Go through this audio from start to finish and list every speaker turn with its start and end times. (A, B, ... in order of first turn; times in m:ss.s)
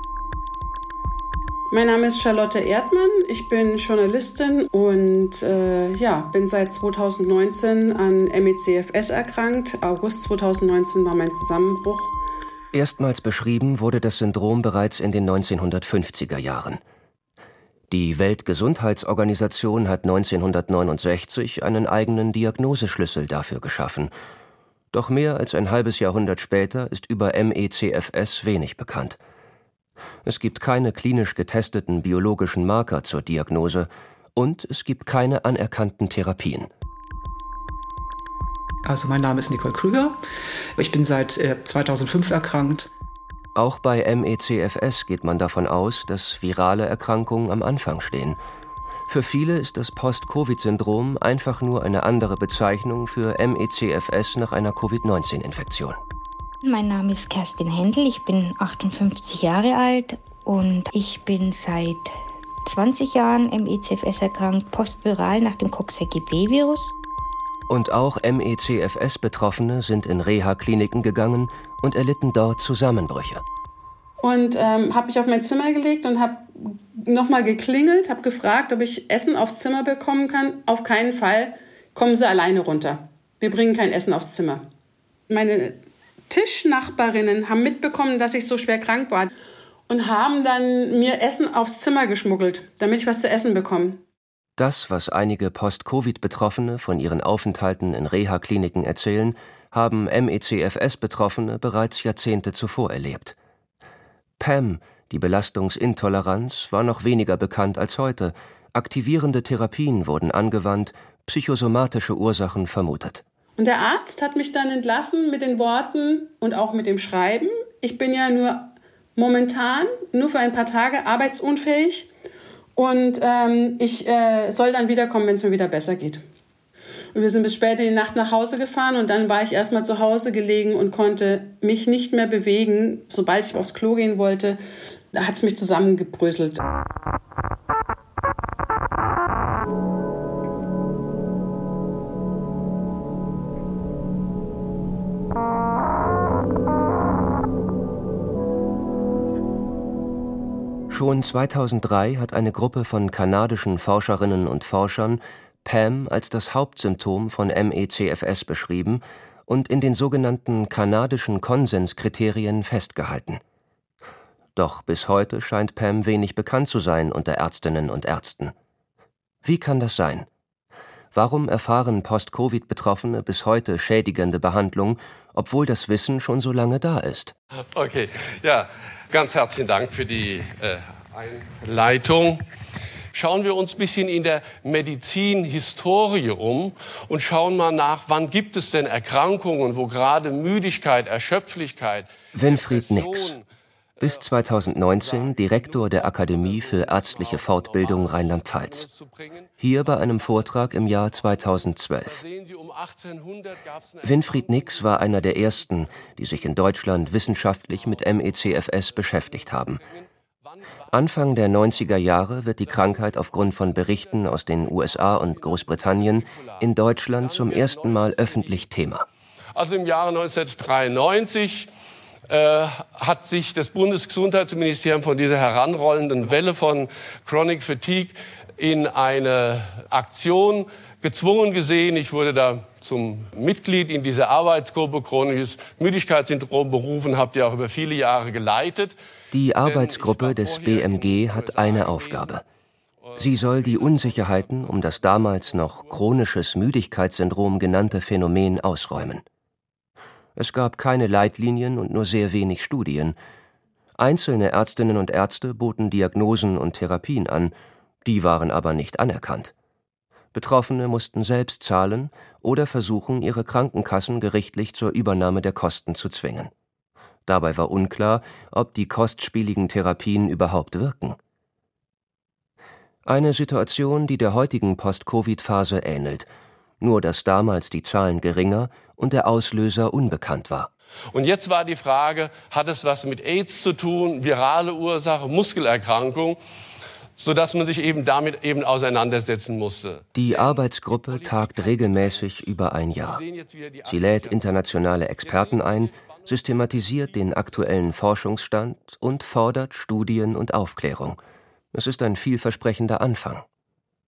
0:01.7-0:12.2 A
0:12.7-0:16.8 B
0:17.9-0:24.1 B
0:24.9-0:29.2 B
0:30.2-0:36.7 B
0:38.8-0:40.2 C
0:40.8-0:42.9 C
0:43.5-0:48.4 B
0:49.1-0:56.0 B
0:56.6-1:06.9 D
1:07.7-1:13.4 B
1:14.2-1:24.7 A
1:25.3-1:29.3 A
1:29.9-1:34.0 A
1:34.6-1:43.3 B
1:44.4-1:53.2 B
1:53.6-2:02.1 A
2:02.8-2:06.2 A
2:07.1-2:14.6 A
2:15.1-2:16.6 A
2:30.9-2:43.4 B
2:44.6-2:48.5 B
2:49.4-2:50.3 B
2:51.1-2:57.3 B
2:57.7-3:02.4 E
3:03.1-3:13.4 E
3:12.3-3:13.4 B
3:14.0-3:14.3 E
3:14.0-3:18.8 B
3:14.9-3:38.7 E
3:19.6-3:22.2 B
3:24.0-3:29.8 B
3:30.9-3:39.0 B
3:39.5-3:41.7 E
3:42.3-3:59.0 E
3:59.3-4:02.4 B
3:59.6-4:02.4 E
4:03.0-4:06.1 E
4:03.2-4:09.2 B
4:10.4-4:13.2 B
4:14.0-4:17.5 B
4:18.0-4:19.5 B
4:20.3-4:26.5 B
4:27.2-4:31.2 B
4:33.0-4:36.3 B
4:36.8-4:40.7 B
4:41.1-4:46.4 E
4:47.2-4:58.0 E
4:50.1-4:53.2 B
4:53.8-5:01.2 B
5:01.7-5:03.4 B